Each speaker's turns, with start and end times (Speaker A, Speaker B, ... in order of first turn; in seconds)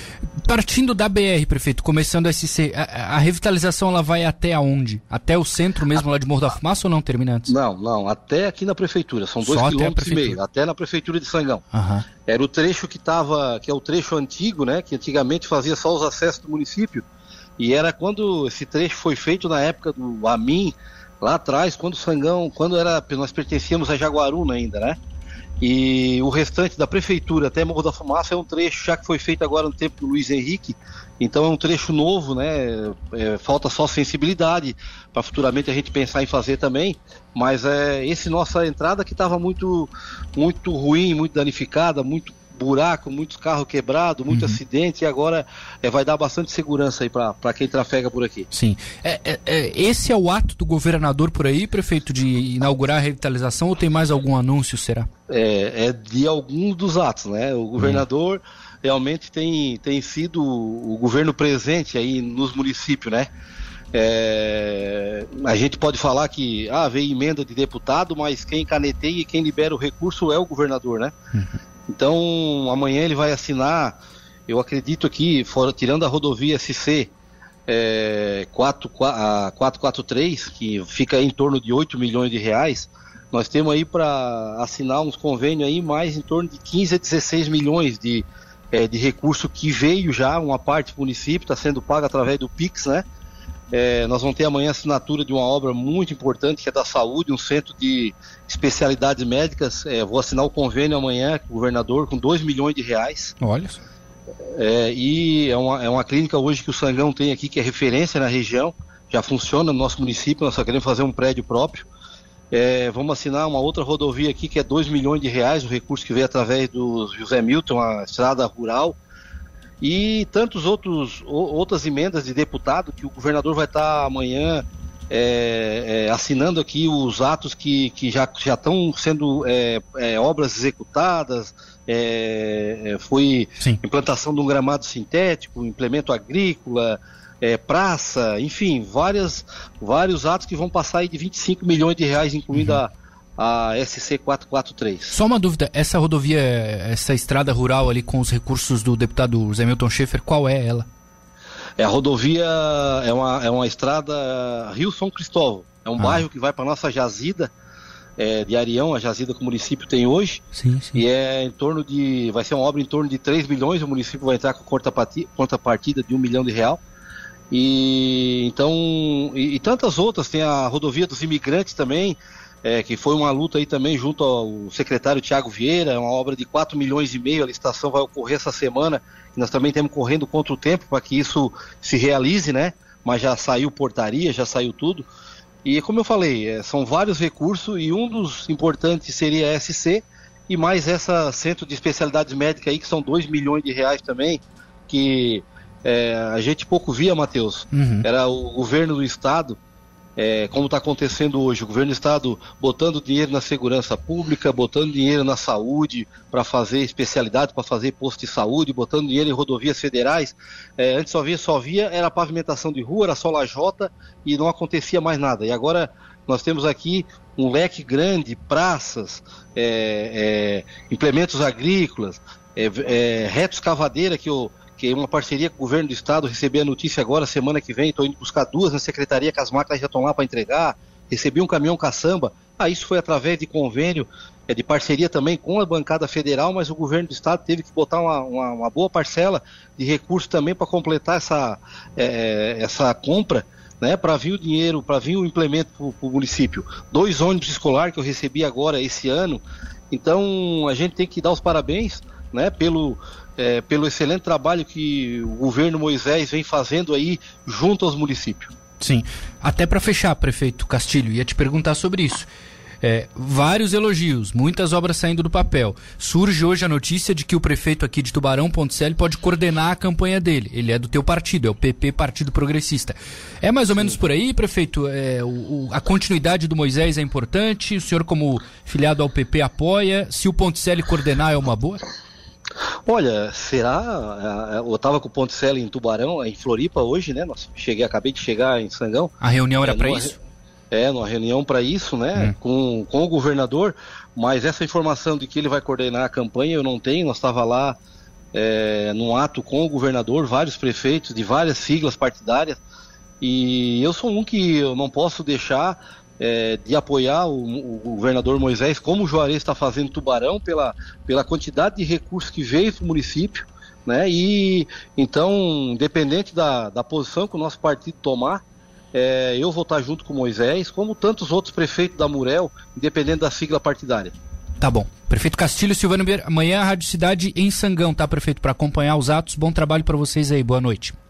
Speaker A: 0.3-7.5, 9.4-10.4, 11.7-12.1, 44.3-44.6, 48.5-55.1, 103.4-103.8, 142.5-142.8, 145.1-150.9, 160.5-161.0, 197.7-198.0, 258.8-262.3, 262.8-281.8, 289.2-290.1, 324.6-330.9
Speaker B: 7.5-11.6, 12.3-17.0, 17.6-25.0, 25.6-48.5, 55.3-63.3, 63.9-71.1, 71.9-74.0, 74.5-77.1, 77.7-93.0, 93.7-103.3, 104.5-111.9, 112.5-119.0, 119.8-145.2, 151.8-157.5, 158.2-160.4, 160.9-166.8, 167.5-185.1, 185.6-199.6, 200.2-258.5, 282.8-290.1, 290.7-297.8, 298.3-302.6, 303.2-324.1